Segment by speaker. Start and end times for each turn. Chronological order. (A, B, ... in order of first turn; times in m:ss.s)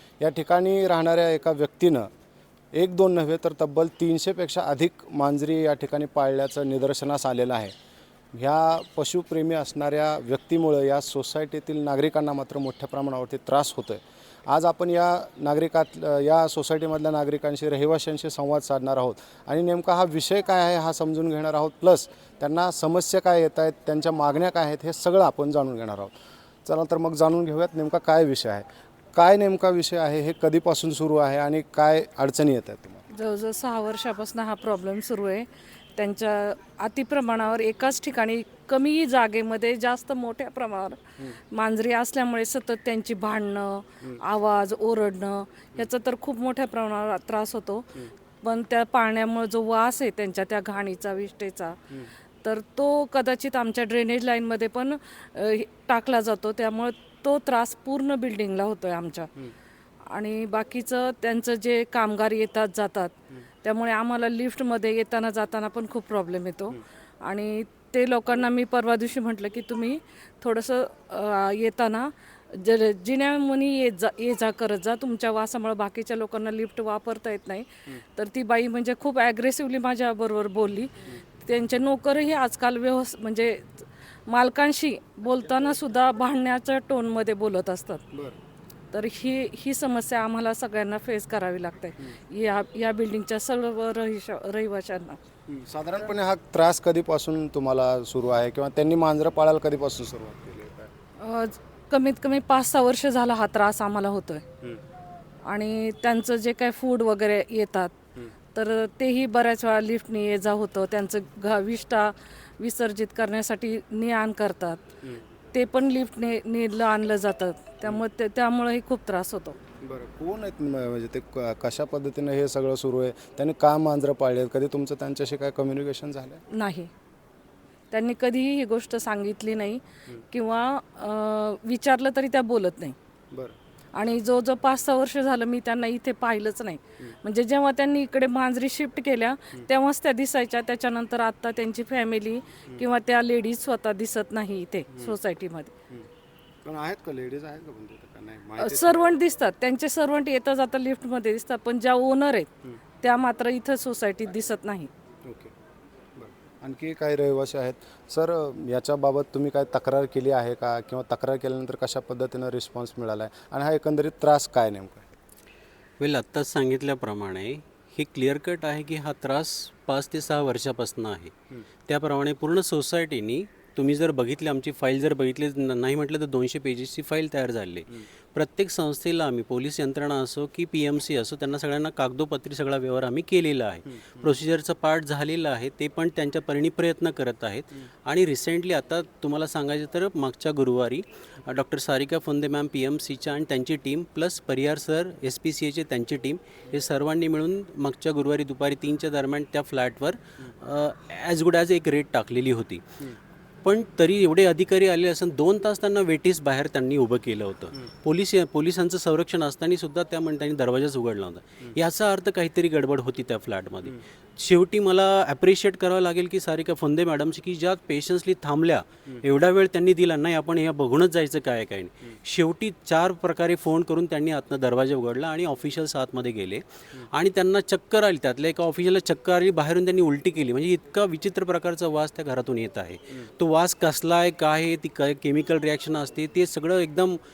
0:00.2-0:02.1 A
0:02.7-0:07.7 A
0:08.3-0:26.1 A
0:26.6-0:33.0 A
0:33.1-0:51.8 B
0:52.4-0:59.3 B
1:00.1-1:28.0 B
1:28.9-1:35.2 B
1:35.5-1:40.9 A
1:41.2-1:44.5 B
1:45.5-1:48.0 B
1:48.5-1:54.9 B
1:55.5-1:59.6 B
1:59.8-2:06.4 A
2:06.5-2:06.9 B
2:07.9-2:13.0 B
2:13.9-2:25.7 B
2:24.9-2:25.2 A
2:26.6-2:29.0 A
2:28.6-2:34.9 B
2:35.2-2:35.5 A
2:36.2-2:45.1 A
2:46.0-2:51.3 C
2:51.9-3:22.8 C
3:04.0-3:04.3 A
3:23.6-3:57.2 C